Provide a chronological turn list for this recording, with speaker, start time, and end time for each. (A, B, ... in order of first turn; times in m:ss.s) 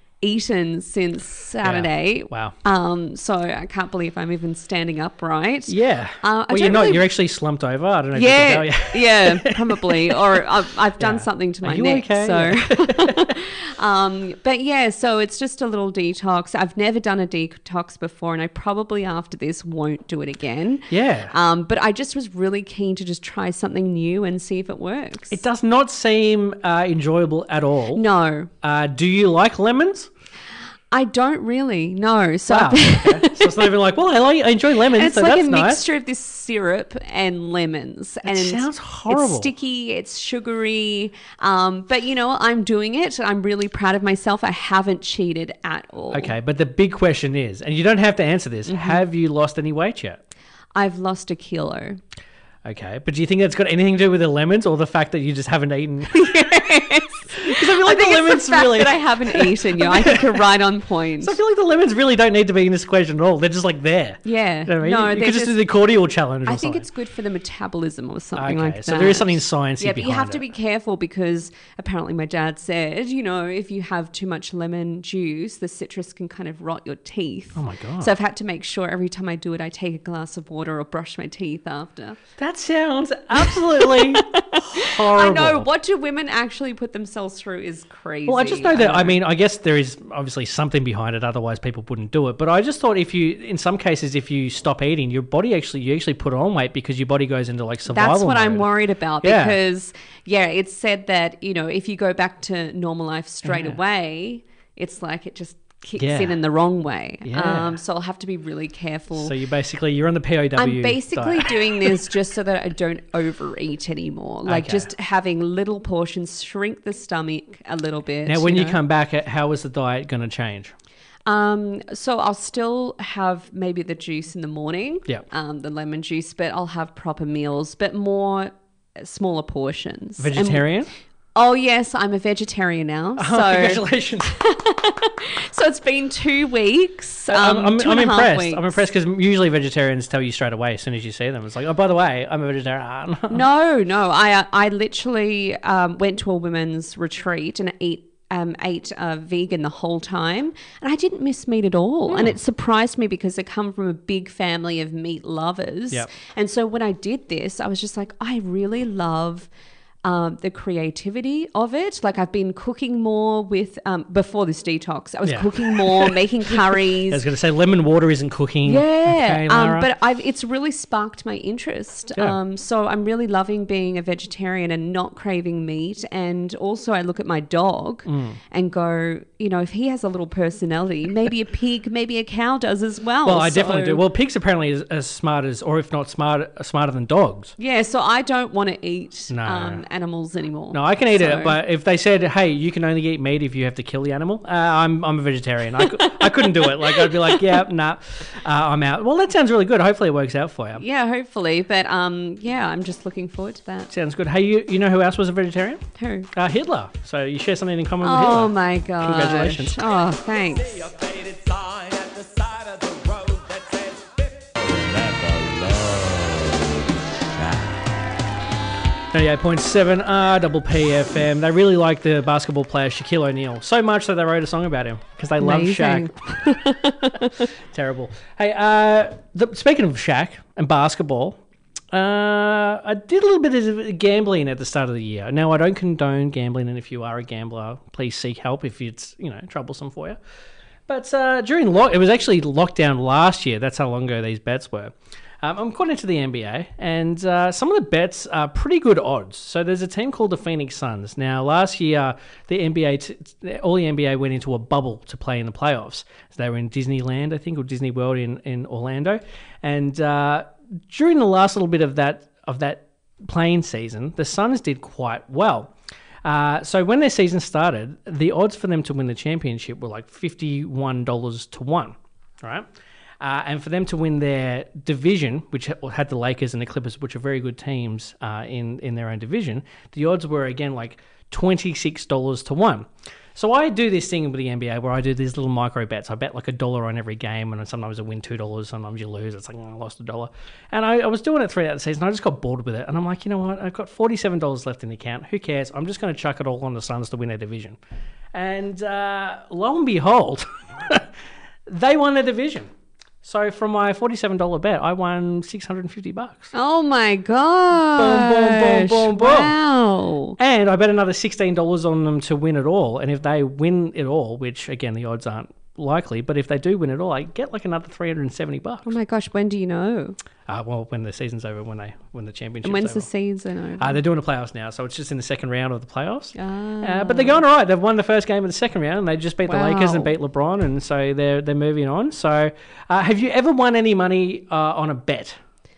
0:00.2-0:07.1 A
0:01.6-0:02.6 B
0:05.7-0:10.5 B
0:08.1-0:25.4 A
0:11.0-0:13.3 B
0:20.9-0:21.3 B
0:25.3-0:28.0 B
0:27.9-0:28.5 A
0:28.6-0:30.1 B
0:30.9-0:33.7 A
0:32.5-0:35.8 B
0:34.8-0:46.4 A
0:38.2-0:39.5 B
0:46.1-0:50.2 B
0:48.7-0:49.0 A
0:50.8-0:52.0 A
0:52.6-0:56.3 B
0:56.1-1:01.4 A
0:57.3-1:00.4 B
1:01.2-1:06.9 B
1:04.2-1:05.6 A
1:06.5-1:22.2 A
1:08.4-1:10.4 B
1:17.6-1:18.1 B
1:22.4-1:25.7 B
1:23.4-1:29.2 A
1:28.3-1:39.6 B
1:37.9-1:49.4 A
1:43.4-1:43.8 B
1:46.0-1:46.4 B
1:47.2-1:47.8 B
1:49.1-1:52.0 B
1:50.6-1:58.8 A
1:54.4-1:54.9 B
1:58.3-2:00.7 B
2:01.3-2:10.6 A
2:10.2-2:10.9 B
2:11.4-2:18.9 A
2:13.2-2:14.4 B
2:17.3-2:23.4 B
2:23.3-2:39.5 A
2:40.0-2:47.2 A
2:45.2-2:49.9 B
2:48.7-3:04.1 A
2:58.1-2:58.4 B
3:03.2-3:07.5 B
3:07.6-3:11.6 A
3:09.3-3:09.8 B
3:10.7-3:20.8 B
3:15.8-3:17.6 A
3:20.8-3:23.9 A
3:23.9-3:29.8 B
3:26.0-3:26.3 A
3:28.0-3:30.8 A
3:30.4-3:37.8 C
3:39.1-3:46.1 B
3:45.4-3:47.5 A
3:47.7-3:51.4 B
3:51.9-4:00.2 B
4:00.9-4:25.7 B
4:26.2-4:32.7 B
4:33.2-4:57.8 B
4:58.3-5:01.1 B
5:01.7-5:02.7 B
5:03.2-5:06.5 B
5:06.5-5:10.4 A
5:07.8-5:09.6 B
5:10.4-5:18.9 B
5:18.9-5:20.2 A
5:20.5-5:23.1 B
5:22.6-5:24.0 A
5:23.8-5:35.4 B
5:26.4-5:27.4 A
5:29.5-5:30.1 A